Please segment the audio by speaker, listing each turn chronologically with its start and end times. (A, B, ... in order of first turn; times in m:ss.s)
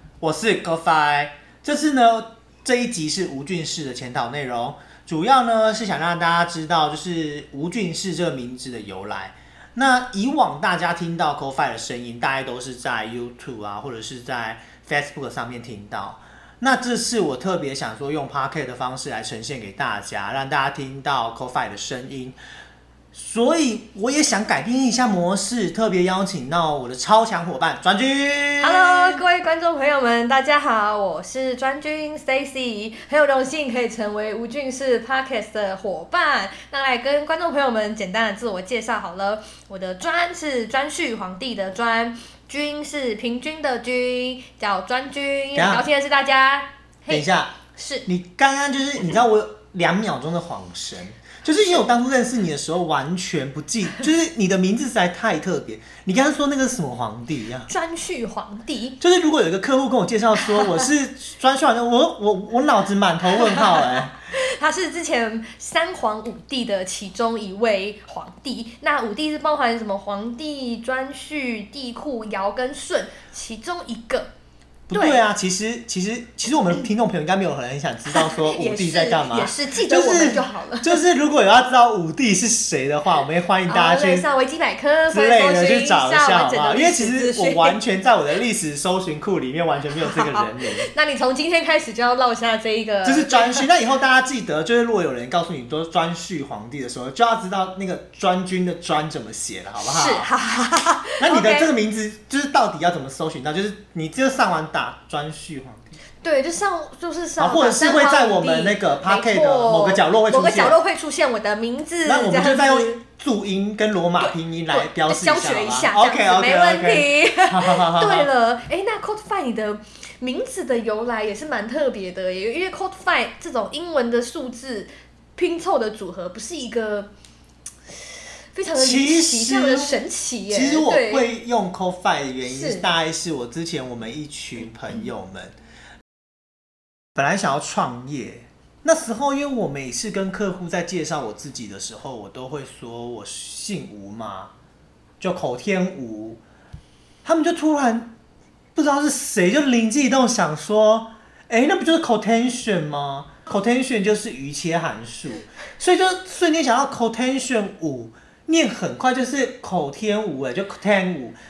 0:00.2-0:22.4 A
0:23.1-0:29.2 A
0:28.6-0:48.0 B
0:45.6-0:45.9 A
0:47.1-0:47.6 A
0:48.0-0:57.7 A
0:57.7-0:59.0 B
0:59.0-1:04.1 A
1:04.3-1:14.3 B
1:14.9-1:24.3 A
1:14.9-1:15.2 B
1:18.1-1:21.0 B
1:23.7-1:27.8 B
1:25.1-1:30.9 A
1:30.0-1:33.7 B
1:33.0-1:40.3 A
1:39.8-1:41.7 B
1:41.2-1:45.9 A
1:46.2-1:53.0 B
1:47.4-1:50.8 A
1:52.0-1:58.3 A
1:54.2-2:07.1 B
2:08.5-2:11.3 B
2:08.8-2:10.0 A
2:10.5-2:15.6 A
2:12.5-2:12.9 B
2:17.2-2:24.5 A
2:25.2-2:26.4 A
2:27.2-2:28.1 A
2:28.8-2:41.4 A